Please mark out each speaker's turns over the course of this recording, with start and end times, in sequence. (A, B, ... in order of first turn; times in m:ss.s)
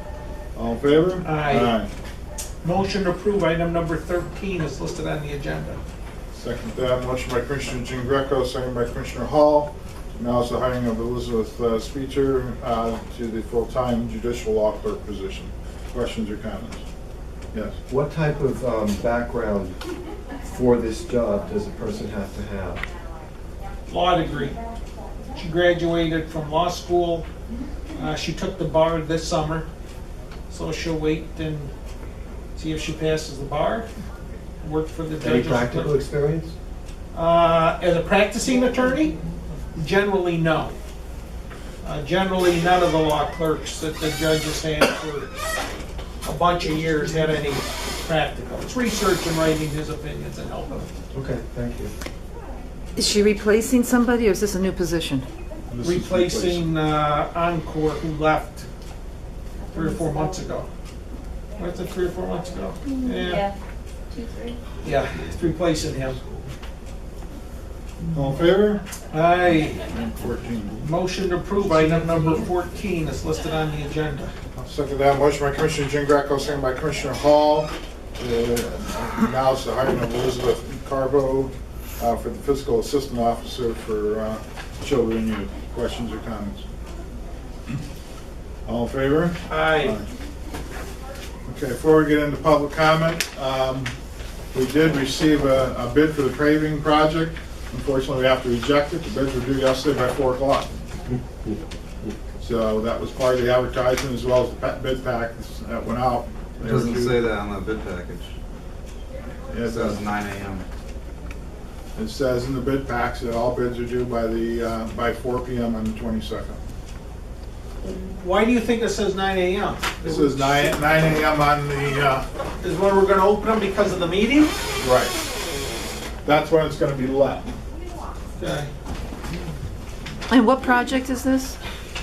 0:00.6-0:01.9 A
0:01.2-0:01.8 B
0:02.6-0:05.8 B
0:06.3-0:16.8 A
0:17.9-0:19.8 C
0:20.4-0:22.8 C
0:23.9-0:24.6 B
0:25.3-0:27.3 B
0:27.9-0:29.7 B
0:30.5-0:31.7 B
0:32.6-0:33.9 B
0:34.6-0:36.0 B
0:35.2-0:36.6 C
0:37.1-0:39.2 B
0:38.7-0:39.2 D
0:39.7-0:40.8 B
0:41.8-0:45.6 B
0:46.2-0:50.9 B
0:51.1-0:51.9 C
0:53.0-0:55.2 E
0:55.7-0:56.7 A
0:55.8-0:58.7 B
0:59.6-1:00.4 D
0:59.7-1:00.7 B
1:01.6-1:03.4 B
1:02.9-1:03.5 D
1:04.1-1:04.6 D
1:04.8-1:06.2 B
1:08.1-1:08.8 A
1:09.1-1:09.8 B
1:09.7-1:10.8 A
1:10.8-1:14.3 B
1:14.6-1:26.6 A
1:28.6-1:30.0 A
1:29.4-1:30.0 B
1:31.4-1:33.9 A
1:34.5-1:40.7 A
1:42.4-1:47.2 A
1:46.6-1:48.3 F
1:49.5-1:50.0 A
1:49.6-1:50.6 F
1:51.9-1:56.6 A
1:57.9-2:00.8 B
2:00.0-2:02.2 A
2:02.6-2:04.6 B
2:04.8-2:05.1 A
2:06.2-2:07.5 A
2:08.4-2:08.7 B
2:10.3-2:11.5 E